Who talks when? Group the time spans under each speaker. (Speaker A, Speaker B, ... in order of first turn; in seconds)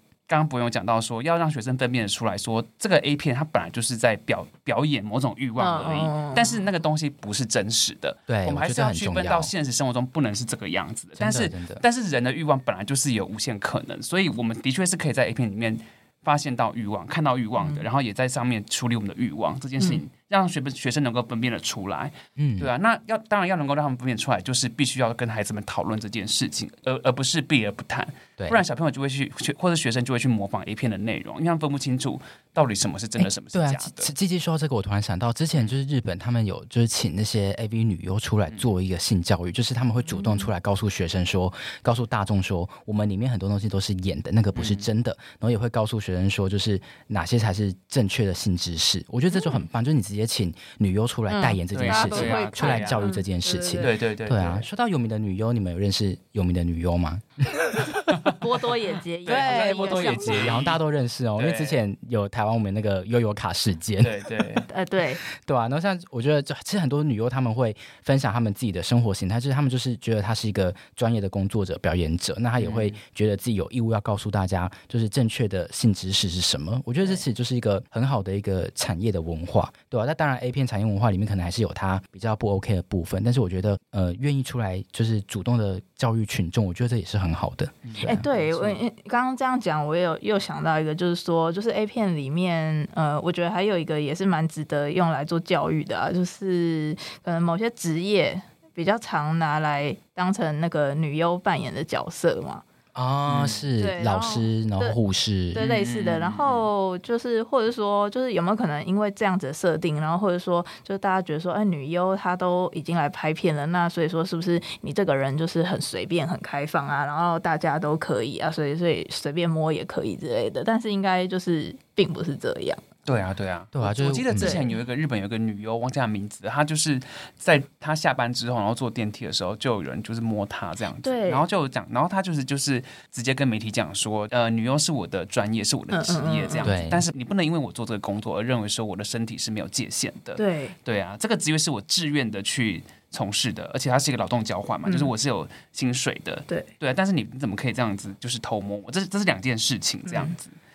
Speaker A: 0.3-34.1, 44.5-44.9, 51.7-53.1, 53.8-54.7, 58.1-58.4, 59.3-60.8, 61.4-61.8, 64.0-64.7, 72.6-73.0, 87.8-88.8, 103.3-103.7, 105.6-106.7, 123.1-150.6
Speaker B: 5.6-6.6, 17.6-17.9, 40.1-40.5, 49.3-49.6, 51.3-53.9, 58.4-60.5, 64.7-65.2, 88.0-102.6, 103.8-105.0, 105.5-122.8, 124.4-124.8, 131.0-131.4, 135.9-136.8, 140.4-140.8, 144.9-145.1, 150.1-150.3
Speaker C: 8.3-9.5, 11.2-11.8, 22.4-22.7, 33.2-58.1, 59.3-64.3, 65.3-88.2, 102.9-105.7, 123.7-124.6, 136.6-137.1